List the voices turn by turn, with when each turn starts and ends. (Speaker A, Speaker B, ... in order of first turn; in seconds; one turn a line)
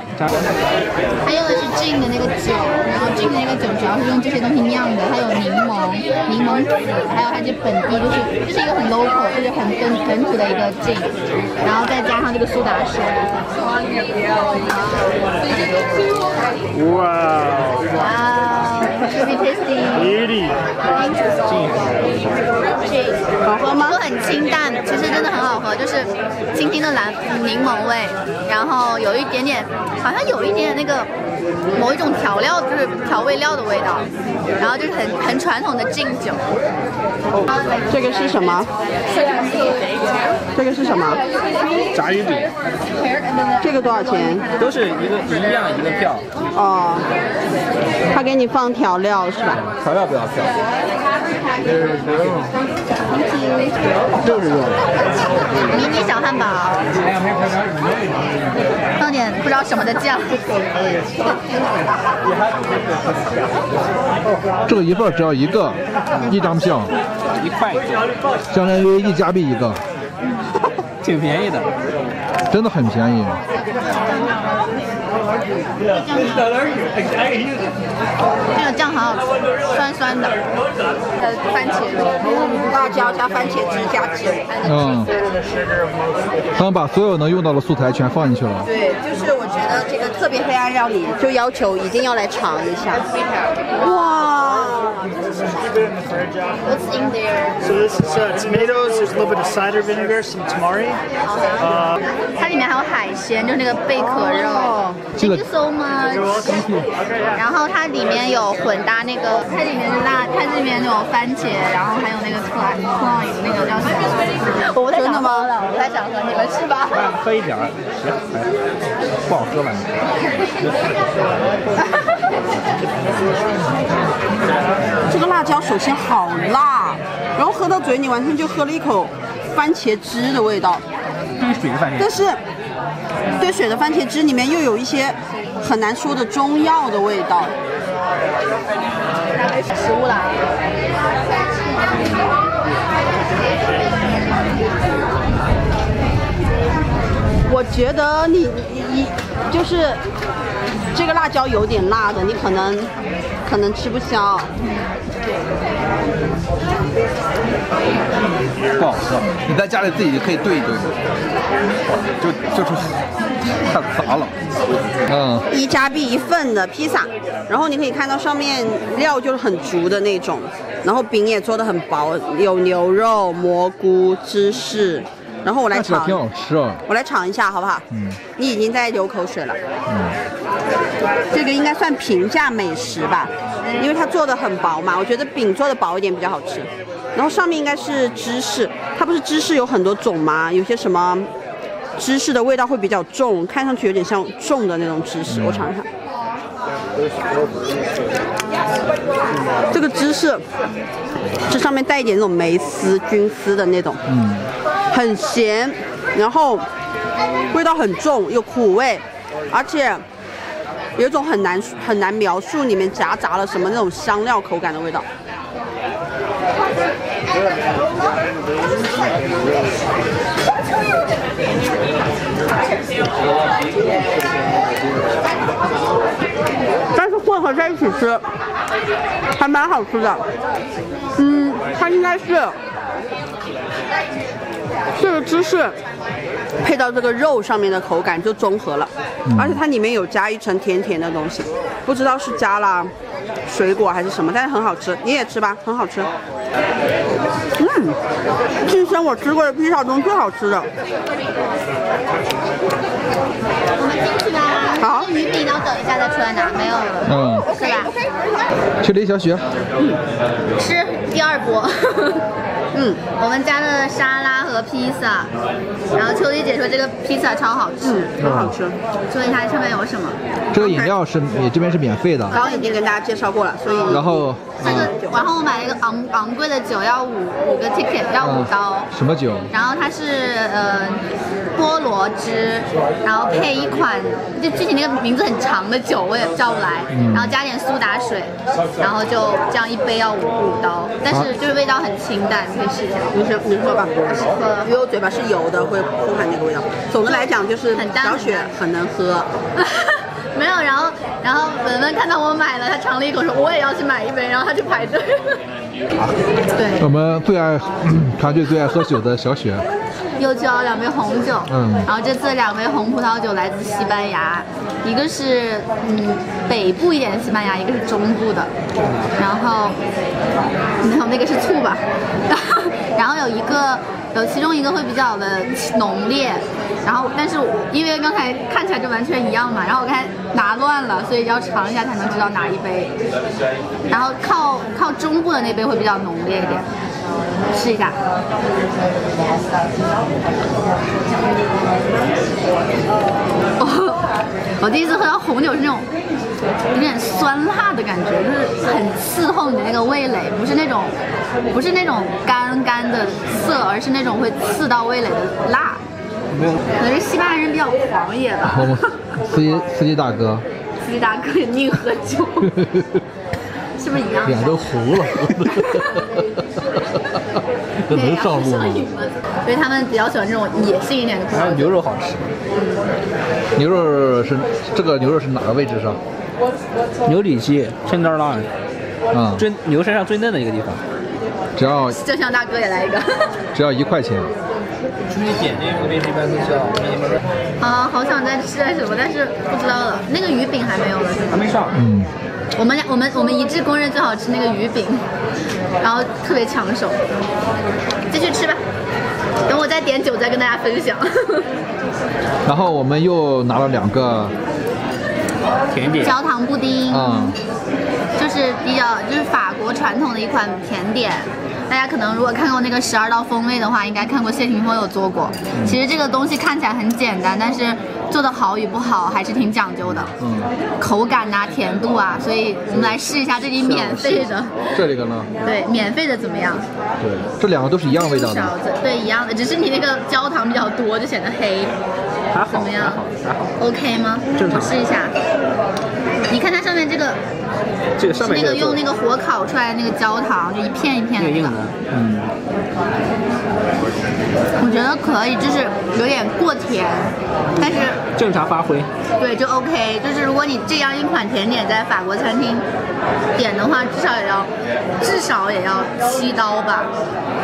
Speaker A: 1.2-13.4
Speaker B: 16.7-17.8
Speaker A: 17.9-20.3
Speaker C: 21.4-22.4
Speaker A: 22.8-23.2
Speaker D: 23.4-24.0
Speaker A: 23.8-31.1
Speaker A: 31.7-34.1
Speaker A: 34.6-36.4
Speaker D: 37.9-38.7
Speaker D: 40.5-41.2
Speaker C: 41.9-42.5
Speaker A: 43.1-44.7
Speaker D: 43.6-44.5
Speaker C: 44.6-46.2
Speaker D: 46.5-47.1
Speaker D: 48.1-49.6
Speaker C: 49.7-50.6
Speaker C: 52.0-52.4
Speaker A: 53.2-53.7
Speaker C: 54.2-54.9
Speaker A: 55.7-56.8
Speaker C: 57.0-58.0
Speaker A: 59.0-60.5
Speaker E: 64.7-66.9
Speaker C: 67.3-68.1
Speaker E: 68.5-69.8
Speaker C: 71.0-71.7
Speaker E: 72.5-73.4
Speaker A: 73.6-74.6
Speaker A: 75.7-77.2
Speaker A: 78.5-80.4
Speaker A: 81.2-82.1
Speaker D: 82.2-84.5
Speaker E: 84.6-85.1
Speaker A: 84.7-85.0
Speaker E: 86.5-88.7
Speaker D: 88.6-93.1
Speaker D: 93.7-96.2
Speaker A: 96.6-97.7
Speaker B: 97.8-101.0
Speaker A: 101.2-101.8
Speaker A: 102.3-106.8
Speaker D: 104.2-105.0
Speaker E: 105.2-105.4
Speaker A: 107.3-117.1
Speaker D: 114.9-115.5
Speaker C: 116.9-118.5
Speaker C: 119.2-120.0
Speaker C: 120.6-121.0
Speaker A: 121.8-122.2
Speaker D: 125.0-130.8
Speaker C: 131.4-132.1
Speaker D: 131.9-132.4
Speaker D: 133.3-137.5
Speaker A: 139.3-140.4
Speaker D: 147.4-150.0
Speaker D: 150.9-152.9
Speaker D: 153.4-154.5
Speaker E: 158.7-161.0
Speaker E: 161.8-164.4
Speaker E: 165.1-165.4
Speaker D: 165.5-176.2
Speaker E: 175.7-176.8
Speaker D: 176.9-177.8
Speaker E: 177.9-178.2
Speaker D: 178.3-179.6
Speaker E: 179.9-180.2
Speaker D: 181.3-191.3
Speaker D: 191.9-195.9
Speaker E: 195.3-195.7
Speaker D: 199.7-200.4
Speaker D: 201.5-204.0
Speaker E: 204.1-204.5
Speaker D: 204.9-206.7
Speaker D: 207.5-210.0
Speaker D: 210.9-215.1
Speaker D: 226.9-228.2
Speaker D: 229.3-230.2
Speaker D: 231.2-232.6
Speaker D: 234.9-235.8
Speaker D: 236.6-242.9
Speaker E: 239.3-239.6
Speaker D: 243.5-246.1
Speaker D: 247.6-248.0
Speaker D: 248.6-250.7
Speaker A: 253.8-257.9
Speaker D: 254.8-255.1
Speaker E: 257.0-257.5
Speaker D: 257.0-258.5
Speaker E: 258.8-259.4
Speaker A: 260.6-262.2
Speaker D: 262.7-263.0
Speaker A: 263.2-265.3
Speaker A: 265.9-268.1
Speaker D: 267.8-268.8
Speaker E: 268.2-268.6
Speaker A: 269.1-270.2
Speaker E: 270.5-272.4
Speaker D: 270.6-270.9
Speaker A: 272.3-272.8
Speaker D: 272.3-275.2
Speaker E: 273.9-274.9
Speaker A: 274.6-278.9
Speaker E: 278.2-279.5
Speaker A: 279.5-293.2
Speaker E: 286.9-287.4
Speaker D: 293.1-299.3
Speaker A: 294.3-294.7
Speaker A: 297.1-298.5
Speaker A: 299.6-305.4
Speaker A: 306.5-306.8
Speaker E: 306.8-309.6
Speaker A: 310.1-318.5
Speaker E: 311.5-311.9
Speaker C: 318.8-319.1
Speaker A: 319.1-319.8
Speaker A: 320.8-332.9
Speaker A: 333.9-336.7
Speaker A: 337.5-338.0
Speaker A: 343.6-344.0
Speaker A: 344.6-345.9
Speaker A: 346.7-350.9
Speaker A: 351.5-355.8
Speaker C: 356.3-356.6
Speaker A: 356.8-358.8
Speaker E: 358.4-360.4
Speaker A: 360.8-362.5
Speaker E: 362.6-363.0
Speaker A: 363.8-364.7
Speaker E: 364.2-367.2
Speaker E: 367.9-368.9
Speaker A: 367.9-371.7
Speaker C: 371.3-372.3
Speaker E: 373.5-376.0
Speaker C: 377.0-378.5
Speaker E: 379.1-379.4
Speaker C: 379.4-380.8
Speaker E: 381.6-382.0
Speaker A: 381.9-383.4
Speaker E: 383.5-384.3
Speaker C: 385.1-387.2
Speaker A: 387.6-391.4
Speaker C: 391.3-391.8
Speaker E: 391.7-392.1
Speaker A: 392.5-395.0
Speaker A: 395.8-397.0
Speaker A: 398.1-398.6
Speaker A: 399.4-401.5
Speaker E: 402.4-404.3
Speaker C: 405.7-406.2
Speaker A: 405.9-407.3
Speaker E: 406.9-407.4
Speaker A: 408.2-420.1
Speaker E: 415.5-415.8
Speaker E: 419.8-420.5
Speaker A: 420.8-424.6
Speaker E: 422.7-425.3
Speaker A: 425.4-426.6
Speaker E: 427.0-428.5
Speaker A: 427.9-431.7
Speaker C: 432.3-433.6
Speaker A: 432.4-433.0
Speaker A: 433.6-435.1
Speaker C: 434.3-434.8
Speaker A: 436.3-437.2
Speaker C: 438.0-438.8
Speaker A: 438.1-441.6
Speaker C: 441.2-441.8
Speaker E: 441.9-442.3
Speaker A: 444.6-448.0
Speaker C: 447.6-448.9
Speaker A: 449.2-452.6
Speaker A: 453.3-456.9